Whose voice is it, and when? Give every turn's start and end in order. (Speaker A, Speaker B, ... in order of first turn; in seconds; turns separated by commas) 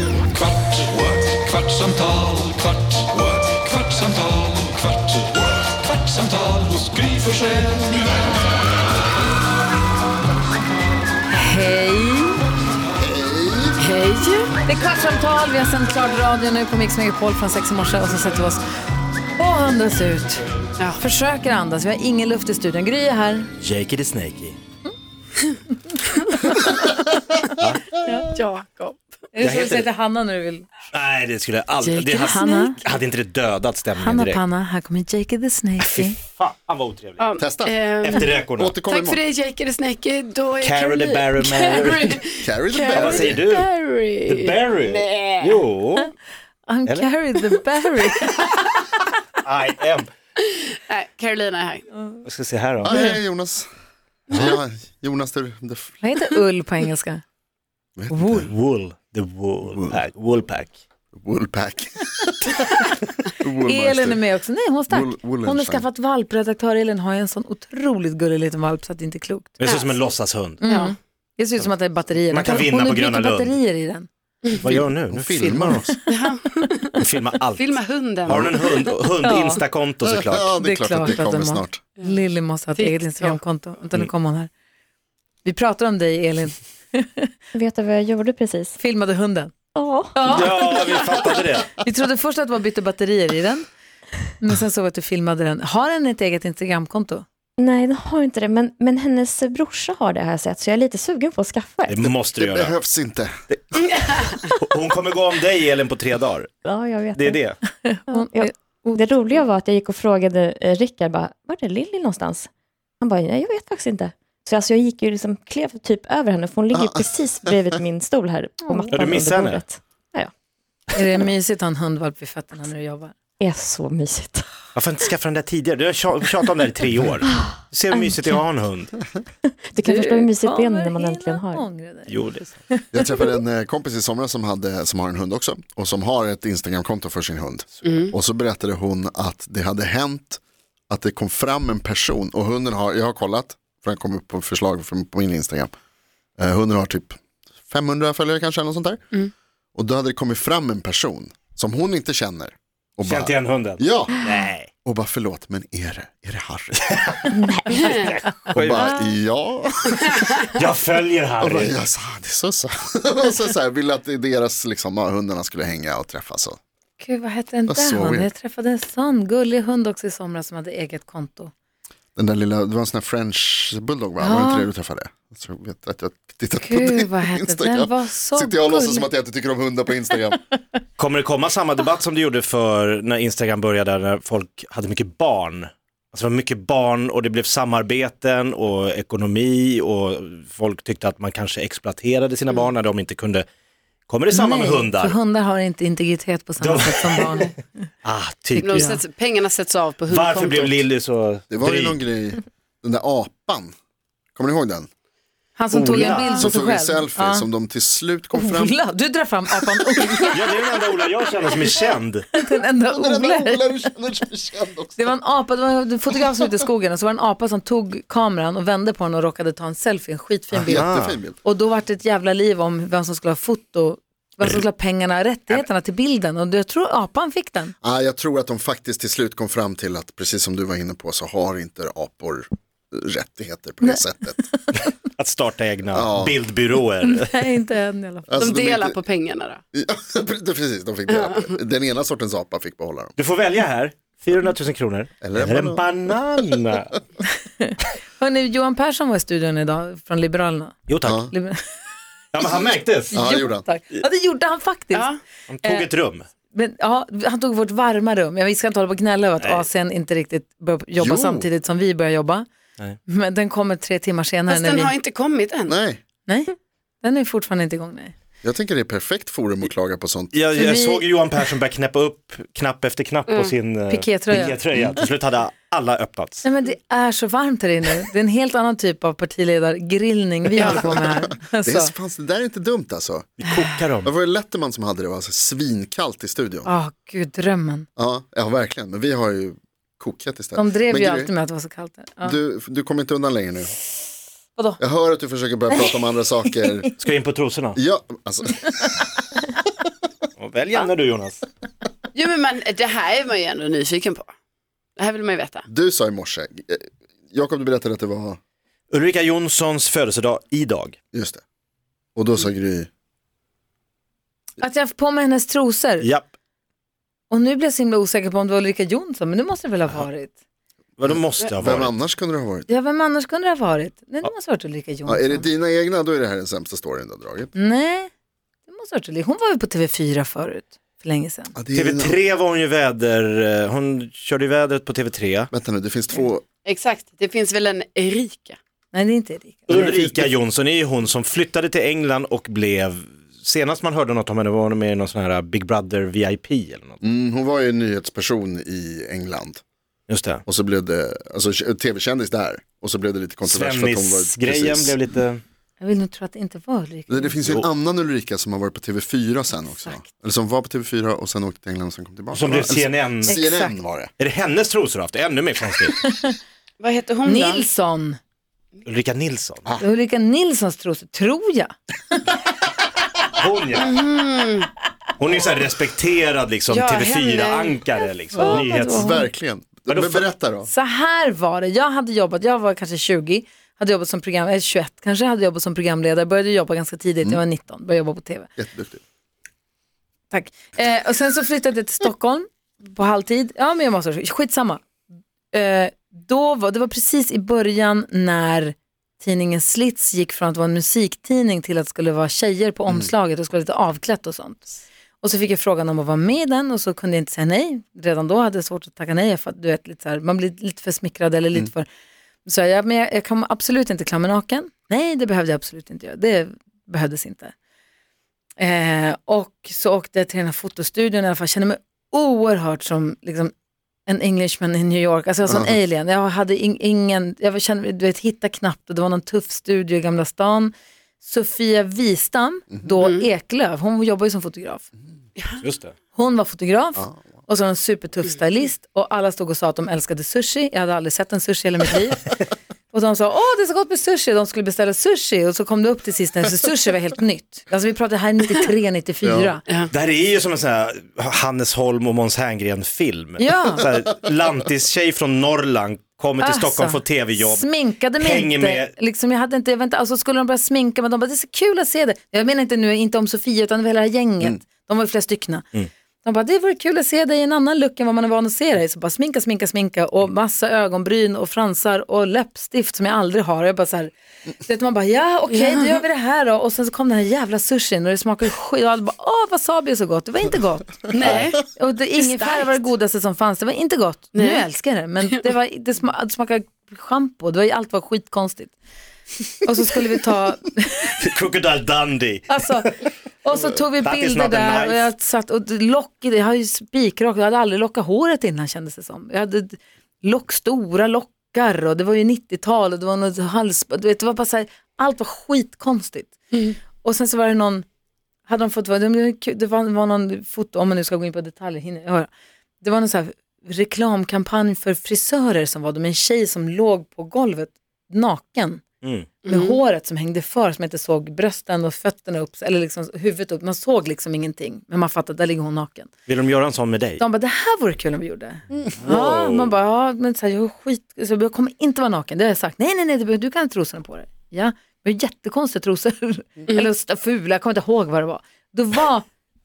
Speaker A: 0.9-3.9, Speaker A: 6.1-7.7, Speaker B: 11.3-12.4, Speaker C: 13.0-13.8, Speaker D: 13.8-14.5, Speaker B: 14.6-18.6, Speaker B: 19.4-20.4, Speaker B: 21.0-23.5, Speaker E: 23.6-24.6, Speaker B: 25.5-26.6, Speaker E: 27.6-27.9, Speaker D: 28.3-29.1, Speaker B: 29.3-30.7, Speaker E: 29.4-29.9, Speaker E: 30.9-34.4, Speaker D: 31.8-32.8, Speaker B: 32.3-32.8, Speaker B: 34.0-36.2, Speaker E: 35.8-37.3, Speaker D: 37.2-45.6, Speaker C: 37.4-37.7, Speaker E: 38.0-38.8, Speaker C: 38.5-39.2, Speaker E: 40.6-42.2, Speaker C: 42.4-43.4, Speaker E: 42.9-43.7, Speaker E: 44.2-46.1, Speaker B: 46.6-48.3, Speaker E: 49.4-50.1, Speaker D: 50.4-51.9, Speaker E: 52.2-53.0, Speaker C: 52.8-53.7, Speaker C: 54.3-55.9, Speaker B: 56.0-57.2, Speaker C: 58.0-58.5, Speaker B: 58.1-58.5, Speaker E: 58.5-60.8, Speaker C: 61.1-62.6, Speaker C: 63.4-64.2, Speaker B: 63.6-69.6, Speaker C: 64.9-65.8, Speaker E: 69.6-70.6, Speaker D: 69.7-69.9, Speaker B: 70.6-74.1, Speaker D: 70.6-70.9, Speaker E: 72.3-73.6, Speaker E: 74.6-75.9, Speaker C: 74.6-76.0, Speaker D: 76.1-77.0, Speaker E: 77.0-80.5, Speaker D: 77.5-78.9, Speaker B: 79.2-79.6, Speaker C: 80.0-81.8, Speaker B: 80.6-84.5, Speaker D: 82.8-83.4, Speaker B: 85.4-87.3, Speaker F: 87.5-88.8, Speaker B: 88.8-89.5, Speaker F: 89.7-90.3, Speaker B: 90.1-93.7, Speaker E: 90.2-91.8, Speaker B: 94.4-97.2, Speaker F: 97.6-102.2, Speaker E: 101.9-102.7, Speaker C: 102.4-103.4, Speaker E: 103.5-106.6, Speaker D: 103.9-104.4, Speaker F: 106.6-107.5, Speaker E: 107.1-107.6, Speaker B: 107.8-109.0, Speaker F: 108.1-112.5, Speaker F: 113.0-120.3, Speaker C: 116.7-117.8, Speaker B: 118.7-119.0, Speaker E: 118.9-119.6, Speaker B: 120.9-123.1, Speaker F: 123.4-124.5, Speaker E: 124.7-129.1, Speaker F: 127.3-128.4, Speaker F: 129.5-131.6, Speaker B: 129.8-132.2, Speaker E: 132.1-132.6, Speaker B: 132.7-133.3, Speaker C: 132.9-145.7, Speaker D: 137.8-138.1, Speaker C: 146.4-149.0, Speaker C: 149.7-154.2, Speaker E: 153.0-154.7, Speaker C: 154.8-157.0, Speaker E: 156.9-157.3, Speaker F: 157.3-157.7, Speaker D: 157.7-158.2, Speaker E: 157.9-159.1, Speaker C: 158.5-160.4, Speaker E: 160.5-161.8, Speaker C: 161.4-166.6, Speaker B: 167.0-171.5, Speaker C: 167.7-168.3, Speaker C: 172.2-180.4, Speaker B: 174.2-174.7, Speaker B: 176.6-179.1, Speaker E: 181.0-193.4, Speaker E: 194.1-195.2, Speaker B: 194.3-197.6, Speaker E: 196.6-197.5, Speaker E: 198.0-199.0, Speaker B: 198.5-199.0, Speaker D: 198.6-200.8, Speaker E: 200.1-202.0, Speaker C: 201.5-203.7, Speaker C: 204.3-204.9, Speaker B: 205.6-207.5, Speaker E: 205.7-206.4, Speaker C: 206.3-208.8, Speaker B: 208.3-210.6, Speaker E: 210.3-212.2, Speaker B: 212.3-213.9, Speaker C: 212.9-215.2, Speaker B: 215.0-227.7, Speaker C: 220.5-221.4, Speaker E: 220.7-221.2, Speaker C: 227.8-234.4, Speaker B: 233.8-234.8, Speaker E: 235.1-237.4, Speaker C: 235.9-236.4, Speaker B: 237.0-238.4, Speaker C: 238.3-239.0, Speaker D: 238.4-239.6, Speaker C: 239.7-243.1, Speaker D: 241.1-241.5, Speaker E: 243.2-247.0, Speaker C: 245.2-245.9, Speaker B: 247.6-250.8, Speaker E: 250.9-251.3, Speaker C: 251.0-251.3, Speaker B: 251.3-251.6, Speaker E: 252.3-253.2, Speaker B: 253.1-255.1, Speaker C: 253.1-253.7, Speaker D: 254.9-255.2, Speaker E: 255.5-256.3, Speaker B: 255.6-255.9, Speaker B: 256.5-262.4, Speaker E: 259.4-259.6, Speaker C: 260.9-261.5, Speaker B: 263.1-264.9, Speaker D: 264.5-265.7, Speaker C: 265.7-266.0, Speaker B: 266.2-268.1, Speaker C: 268.4-270.3, Speaker E: 270.3-276.4, Speaker B: 270.6-271.1, Speaker D: 273.3-273.6, Speaker B: 273.9-274.6, Speaker C: 274.7-275.1, Speaker B: 276.4-281.9, Speaker D: 280.6-281.0, Speaker C: 280.6-283.3, Speaker E: 283.4-284.1, Speaker C: 284.0-286.7, Speaker B: 286.6-287.9, Speaker C: 288.0-291.3, Speaker B: 290.5-292.3, Speaker C: 292.2-293.8, Speaker C: 294.8-296.9, Speaker E: 297.0-297.8, Speaker C: 297.8-299.1, Speaker E: 300.4-301.4, Speaker D: 302.1-304.3, Speaker D: 305.0-305.6, Speaker C: 305.7-308.4, Speaker E: 308.9-311.0, Speaker C: 311.1-311.4, Speaker C: 312.1-312.9, Speaker B: 314.6-316.1, Speaker E: 316.0-316.3, Speaker B: 317.3-320.3, Speaker E: 321.0-321.9, Speaker C: 321.1-322.7, Speaker B: 322.7-325.4, Speaker C: 325.1-327.5, Speaker B: 327.5-328.1, Speaker B: 328.7-331.5, Speaker C: 331.5-332.2, Speaker E: 331.7-335.5, Speaker C: 335.5-336.4, Speaker D: 336.6-338.6, Speaker B: 338.9-339.7, Speaker E: 339.7-347.0, Speaker C: 339.7-340.3, Speaker C: 347.0-349.6, Speaker E: 350.1-350.4, Speaker C: 350.4-355.0, Speaker E: 353.4-355.4, Speaker B: 355.8-357.4, Speaker C: 357.1-364.1, Speaker B: 359.7-360.0, Speaker E: 362.3-363.4, Speaker B: 363.2-363.8, Speaker E: 364.2-366.0, Speaker B: 366.1-366.3, Speaker D: 366.8-367.6, Speaker B: 367.2-368.2, Speaker E: 368.9-369.7, Speaker B: 369.8-372.2, Speaker E: 373.3-374.0, Speaker D: 373.8-374.7, Speaker E: 375.2-379.1, Speaker D: 376.7-377.8, Speaker B: 378.4-379.3, Speaker C: 378.4-380.7, Speaker E: 379.9-380.2, Speaker B: 380.7-388.5, Speaker C: 388.6-389.0, Speaker B: 390.3-394.8, Speaker B: 395.5-411.9, Speaker B: 412.4-417.5, Speaker B: 418.6-423.5, Speaker B: 424.1-434.9, Speaker C: 425.5-425.8, Speaker D: 433.0-433.2, Speaker D: 435.4-435.6, Speaker E: 435.6-435.9, Speaker B: 436.1-442.4, Speaker B: 442.9-449.6, Speaker C: 449.2-449.5, Speaker E: 449.9-458.9, Speaker B: 453.4-453.9, Speaker B: 456.4-465.7, Speaker B: 466.2-488.7, Speaker D: 475.5-476.0, Speaker D: 481.1-482.9, Speaker D: 484.3-484.7, Speaker B: 489.5-491.1, Speaker E: 491.1-492.9, Speaker B: 492.5-492.9, Speaker B: 493.4-506.3, Speaker E: 494.0-495.1, Speaker B: 506.9-507.8, Speaker B: 508.5-512.3, Speaker B: 512.8-518.8, Speaker E: 519.0-519.3, Speaker D: 519.4-519.8, Speaker B: 519.5-526.1, Speaker E: 526.3-527.2, Speaker B: 527.2-539.2, Speaker E: 529.0-529.7